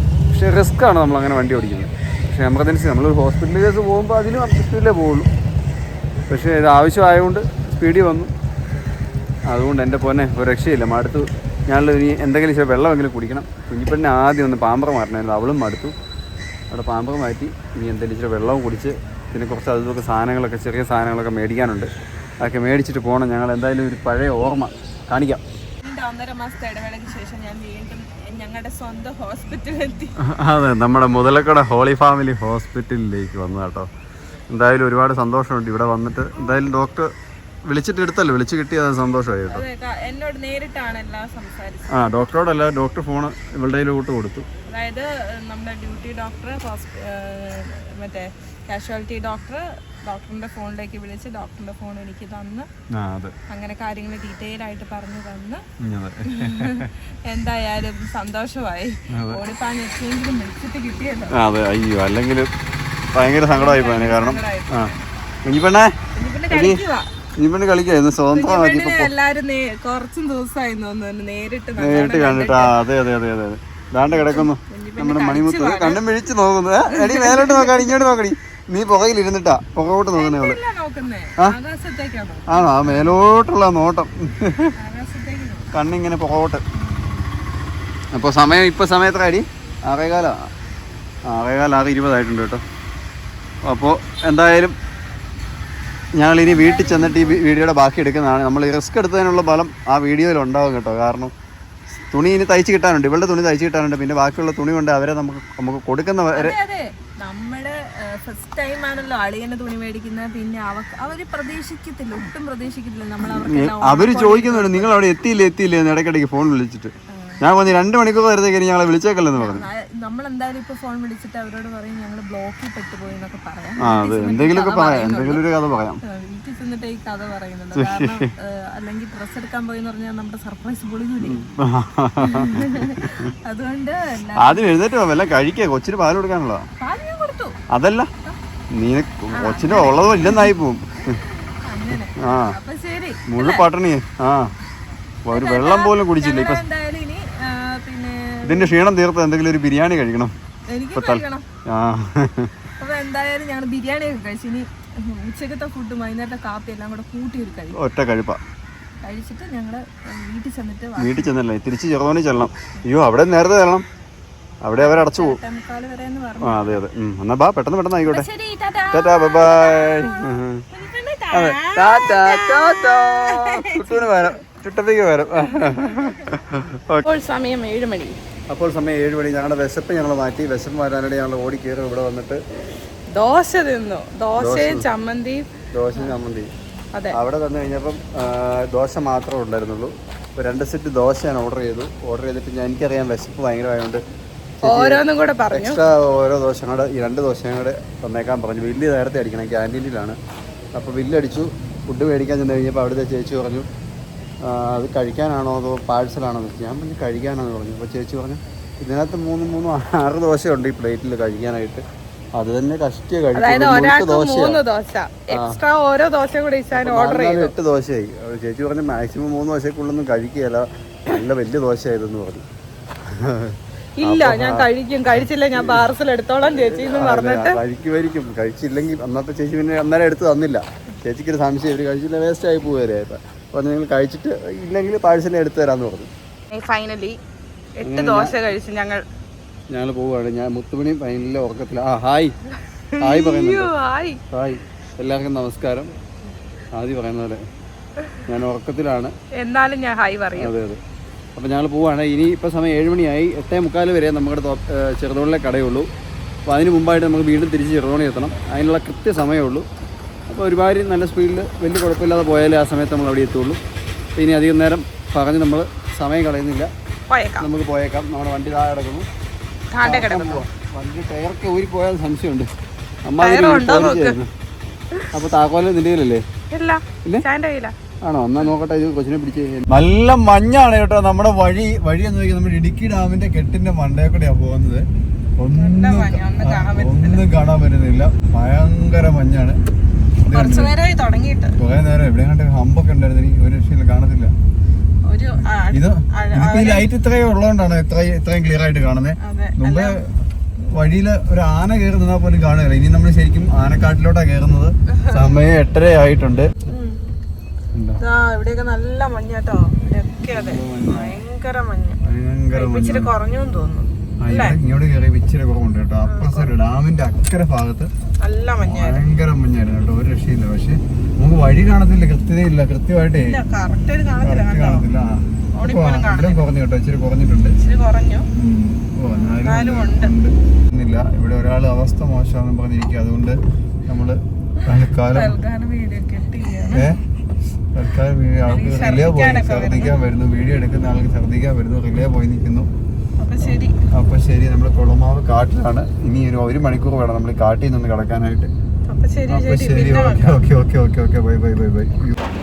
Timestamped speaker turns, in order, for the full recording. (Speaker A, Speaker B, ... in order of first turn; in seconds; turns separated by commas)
Speaker A: 0.3-5.3, Speaker A: 6.3-8.3, Speaker A: 9.5-15.9, Speaker A: 16.7-21.9, Speaker A: 22.4-25.4, Speaker B: 25.8-30.1, Speaker A: 30.2-33.9, Speaker A: 34.5-37.1, Speaker A: 37.6-39.6, Speaker B: 39.5-42.1, Speaker A: 41.9-44.5, Speaker B: 44.7-52.7, Speaker A: 52.9-53.3, Speaker B: 53.5-55.6, Speaker A: 55.8-56.9, Speaker B: 56.2-61.3, Speaker A: 59.1-59.4, Speaker A: 61.3-62.5, Speaker A: 63.1-64.9, Speaker B: 63.3-65.1, Speaker A: 65.4-65.9, Speaker B: 66.1-67.1, Speaker A: 66.5-66.8, Speaker A: 67.4-69.1, Speaker B: 68.3-72.7, Speaker A: 71.8-80.6, Speaker B: 74.1-76.0, Speaker B: 76.9-78.0, Speaker B: 80.1-83.1, Speaker A: 82.5-84.7, Speaker B: 84.8-85.7, Speaker A: 85.7-86.6, Speaker B: 86.7-87.3, Speaker A: 88.1-90.5, Speaker A: 91.3-92.6, Speaker A: 93.7-94.7, Speaker A: 96.2-101.3, Speaker B: 96.5-97.4, Speaker A: 102.1-106.5, Speaker B: 106.3-115.0, Speaker A: 113.2-119.7, Speaker B: 117.1-117.4, Speaker B: 119.3-125.5, Speaker A: 123.8-126.0, Speaker B: 126.0-131.5, Speaker A: 127.7-128.3, Speaker A: 131.2-133.3, Speaker B: 132.2-134.8, Speaker A: 134.3-136.7, Speaker B: 136.8-137.6, Speaker A: 137.7-138.1, Speaker A: 138.7-141.2, Speaker B: 139.3-140.5, Speaker B: 141.1-143.7, Speaker A: 142.2-142.5, Speaker A: 143.3-144.5, Speaker A: 145.2-146.6, Speaker B: 145.3-148.7, Speaker A: 148.4-150.3, Speaker B: 150.7-151.4, Speaker A: 150.9-152.5, Speaker B: 152.8-157.8, Speaker A: 157.7-158.4, Speaker B: 159.0-161.3, Speaker A: 161.0-163.8, Speaker A: 164.6-165.4, Speaker B: 164.8-166.8, Speaker A: 166.4-168.3, Speaker B: 168.1-174.3, Speaker A: 168.9-170.6, Speaker A: 171.3-177.0, Speaker B: 175.6-176.2, Speaker B: 177.0-178.2, Speaker A: 178.5-182.4, Speaker B: 183.1-186.1, Speaker A: 184.4-184.8, Speaker A: 185.7-186.5, Speaker A: 187.1-194.0, Speaker A: 194.6-200.2, Speaker B: 194.6-195.8, Speaker A: 200.7-203.7, Speaker A: 204.4-211.8, Speaker A: 212.3-214.6, Speaker B: 213.3-217.5, Speaker A: 215.3-215.6, Speaker A: 216.7-222.4, Speaker A: 223.1-224.6, Speaker B: 224.0-227.6, Speaker A: 225.5-225.8, Speaker A: 226.6-236.1, Speaker B: 236.5-237.2, Speaker B: 237.8-239.0, Speaker A: 237.8-238.4, Speaker A: 239.7-242.3, Speaker B: 242.9-244.2, Speaker A: 243.0-243.7, Speaker A: 244.3-245.9, Speaker A: 246.7-247.4, Speaker A: 248.2-249.1, Speaker B: 249.3-250.5, Speaker A: 250.3-250.8, Speaker A: 251.3-255.9, Speaker A: 256.5-259.6, Speaker A: 260.3-263.6, Speaker A: 264.2-266.7, Speaker B: 267.1-267.4, Speaker A: 267.4-269.1, Speaker B: 269.7-270.4, Speaker A: 269.8-272.5, Speaker A: 273.1-274.3, Speaker B: 273.2-274.2, Speaker A: 275.1-276.2, Speaker B: 276.5-277.7, Speaker A: 278.0-284.9, Speaker A: 285.4-289.6, Speaker B: 285.6-287.2, Speaker A: 290.2-290.7, Speaker B: 290.3-291.6, Speaker A: 291.6-294.3, Speaker B: 295.1-296.9, Speaker A: 295.7-300.0, Speaker B: 299.2-299.9, Speaker A: 300.7-306.5, Speaker B: 304.9-305.4, Speaker B: 306.7-307.0, Speaker A: 307.7-308.0, Speaker B: 308.0-312.0, Speaker A: 310.3-311.1, Speaker A: 312.0-313.1, Speaker B: 312.5-314.6, Speaker A: 314.2-317.9, Speaker B: 316.1-316.5, Speaker B: 318.2-319.1, Speaker A: 318.6-323.4, Speaker B: 323.1-324.9, Speaker A: 324.2-327.6, Speaker B: 325.6-326.4, Speaker B: 327.6-328.3, Speaker A: 328.4-335.3, Speaker B: 329.1-330.1, Speaker B: 335.1-336.9, Speaker A: 336.7-337.0, Speaker A: 337.7-342.7, Speaker B: 338.4-339.9, Speaker B: 343.2-343.8, Speaker A: 343.4-348.5, Speaker B: 348.9-350.5, Speaker A: 349.3-352.1